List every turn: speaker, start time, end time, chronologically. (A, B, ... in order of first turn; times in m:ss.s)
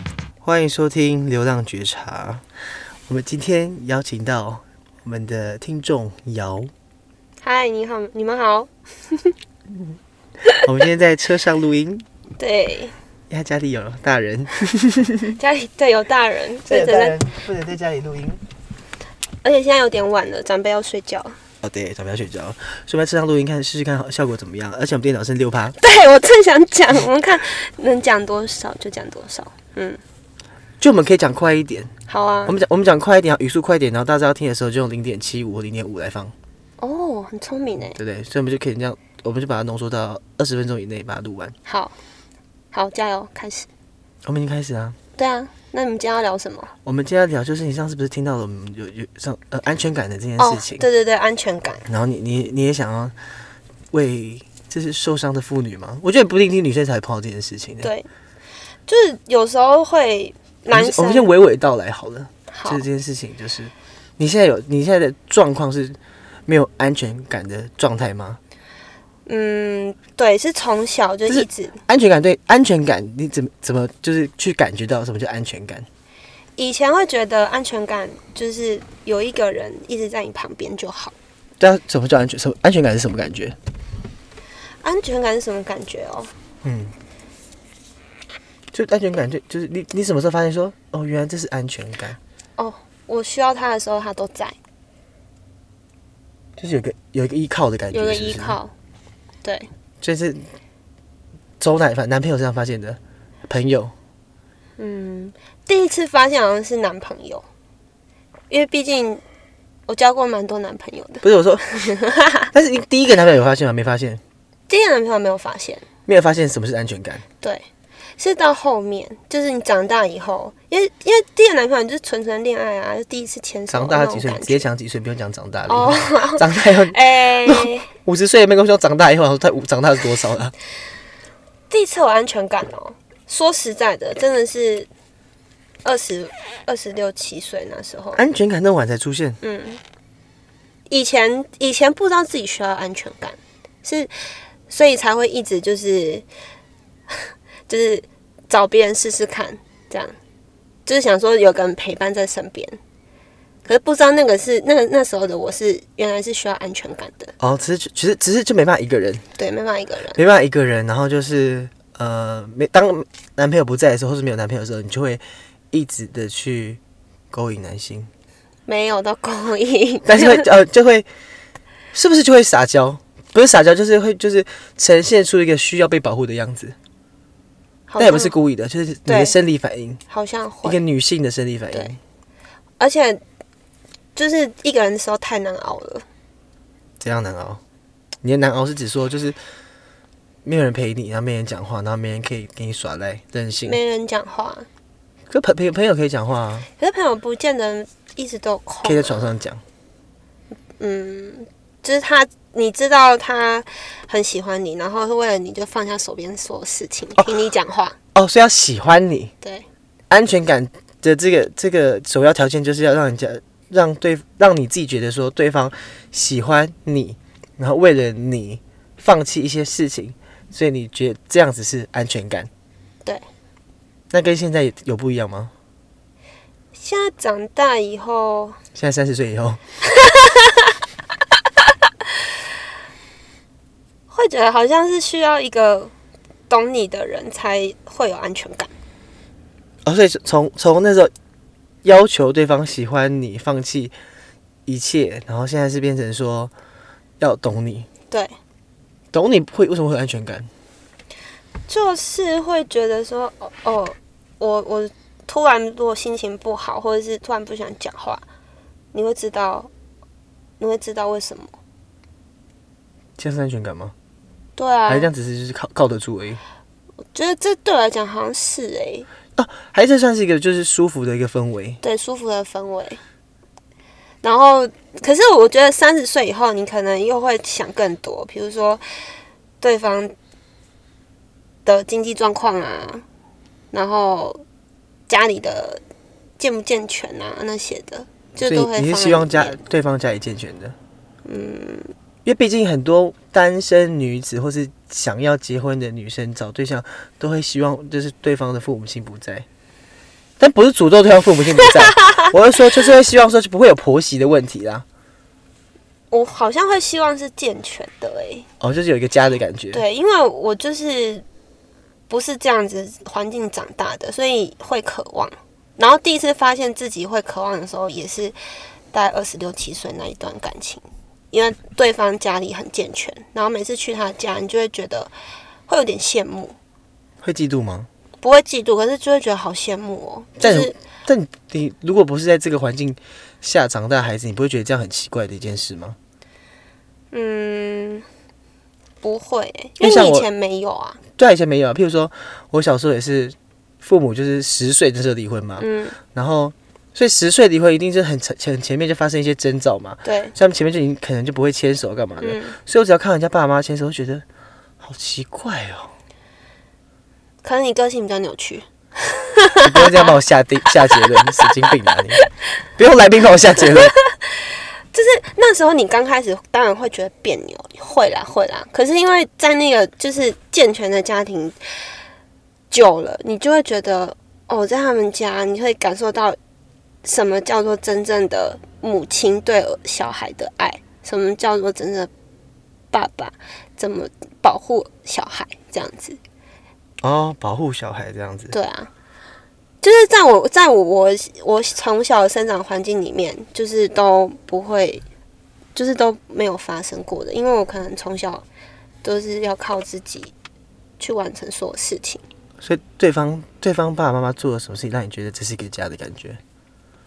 0:00.4-0:02.5 A
0:03.1-0:06.7 A
0:07.4-0:09.3 B
0:10.6-0:12.0 A
0:12.4-0:12.9 B
0:13.3-0:15.4 A
0:15.3-0:17.2 B
0:16.6-0:18.4 A
0:19.4-0:21.4 B
0:21.6-0:25.8 A
0:25.8-0:30.0 B
0:30.8-0:31.9 A
0:32.1-0:32.5 B
0:32.4-0:36.3 A
0:36.8-0:38.0 B
0:37.9-0:41.5 A
0:41.6-0:41.9 B
0:42.7-0:43.7 B
0:44.2-0:45.0 A
0:45.2-0:46.7 B
0:46.8-0:50.8 A
0:50.4-0:51.8 B
0:51.9-0:53.2 A
0:53.9-0:57.9 A
0:57.8-0:58.1 B
0:58.9-1:01.3 B
1:00.7-1:08.4 A
1:02.5-1:02.8 B
1:09.2-1:11.8 B
1:11.3-1:15.9 A
1:16.6-1:21.1 B
1:21.6-1:23.6 A
1:24.8-1:26.3 B
1:26.6-1:26.9 A
1:28.7-1:32.2 A
1:32.6-1:34.6 B
1:36.6-1:38.6 A
1:37.9-1:38.7 B
1:39.4-1:39.7 B
1:40.0-1:40.5 A
1:41.6-1:43.9 A
1:44.8-1:47.4 B
1:48.5-1:49.2 B
1:49.9-1:52.5 B
1:51.2-1:51.6 A
1:52.5-1:54.2 A
1:54.7-1:55.8 B
1:56.1-1:57.2 A
1:57.4-1:57.7 B
1:58.2-2:04.6 B
2:03.7-2:10.5 A
2:05.7-2:07.9 B
2:11.7-2:14.9 B
2:15.8-2:18.2 B
2:18.2-2:19.4 A
2:19.4-2:19.8 B
2:20.9-2:26.2 B
2:27.1-2:30.2 B
2:30.8-2:32.8 B
2:33.6-2:37.3 B
2:37.4-2:39.2 A
2:39.4-2:40.2 B
2:40.2-2:46.8 A
2:47.3-2:48.1 A
2:48.7-2:50.4 B
2:50.0-2:51.1 A
2:51.9-2:56.7 A
2:57.9-2:58.3 B
2:58.0-3:00.0 A
2:59.0-2:59.4 B
3:00.1-3:00.8 B
3:00.6-3:02.0 A
3:02.8-3:03.2 B
3:04.2-3:06.0 B
3:07.0-3:07.6 A
3:08.2-3:09.4 A
3:10.4-3:13.8 A
3:13.6-3:14.7 B
3:15.3-3:16.7 A
3:16.8-3:19.3 B
3:18.8-3:19.6 A
3:20.8-3:27.9 B
3:28.1-3:29.3 A
3:29.4-3:29.7 B
3:30.1-3:42.5 A
3:44.1-3:45.5 A
3:46.7-3:48.6 B
3:48.7-3:49.6 A
3:49.8-3:50.7 B
3:54.1-3:55.9 B
3:56.5-3:58.7 B
3:59.8-4:01.1 A
4:01.8-4:03.9 A
4:04.7-4:06.5 A
4:07.2-4:07.9 A
4:09.1-4:10.5 A
4:11.7-4:18.2 B
4:18.9-4:19.7 B
4:20.6-4:21.5 B
4:23.2-4:23.9 A
4:24.6-4:25.1 B
4:24.9-4:26.4 A
4:27.1-4:29.1 B
4:29.4-4:31.8 A
4:31.8-4:33.0 B
4:34.2-4:38.8 B
4:39.6-4:40.1 B
4:41.6-4:43.0 B
4:43.7-4:44.4 B
4:45.1-4:45.8 B
4:46.4-4:49.6 B
4:48.4-4:50.8 A
4:51.2-4:51.9 B
4:52.2-4:59.4 A
5:00.4-5:04.8 A
5:01.6-5:02.3 B
5:06.1-5:08.5 B
5:08.6-5:09.8 A
5:09.7-5:11.2 B
5:12.1-5:18.4 B
5:18.9-5:25.1 B
5:25.7-5:26.6 B
5:27.2-5:27.9 A
5:28.2-5:30.7 B
5:30.4-5:36.0 A
5:37.1-5:38.0 B
5:39.0-5:41.0 B
5:39.8-5:40.3 A
5:41.2-5:54.2 A
5:45.6-5:46.0 B
5:50.0-5:50.3 B
5:52.2-5:52.6 B
5:54.8-5:55.9 A
5:57.4-6:00.1 B
5:59.6-6:02.2 A
6:02.8-6:03.9 A
6:03.7-6:11.6 B
6:12.7-6:16.4 B
6:17.0-6:22.1 B
6:22.9-6:26.2 B
6:27.0-6:28.5 A
6:28.5-6:28.9 B
6:29.8-6:35.0 B
6:35.7-6:38.4 B
6:39.0-6:40.3 B
6:41.0-6:42.2 B
6:42.6-6:46.4 A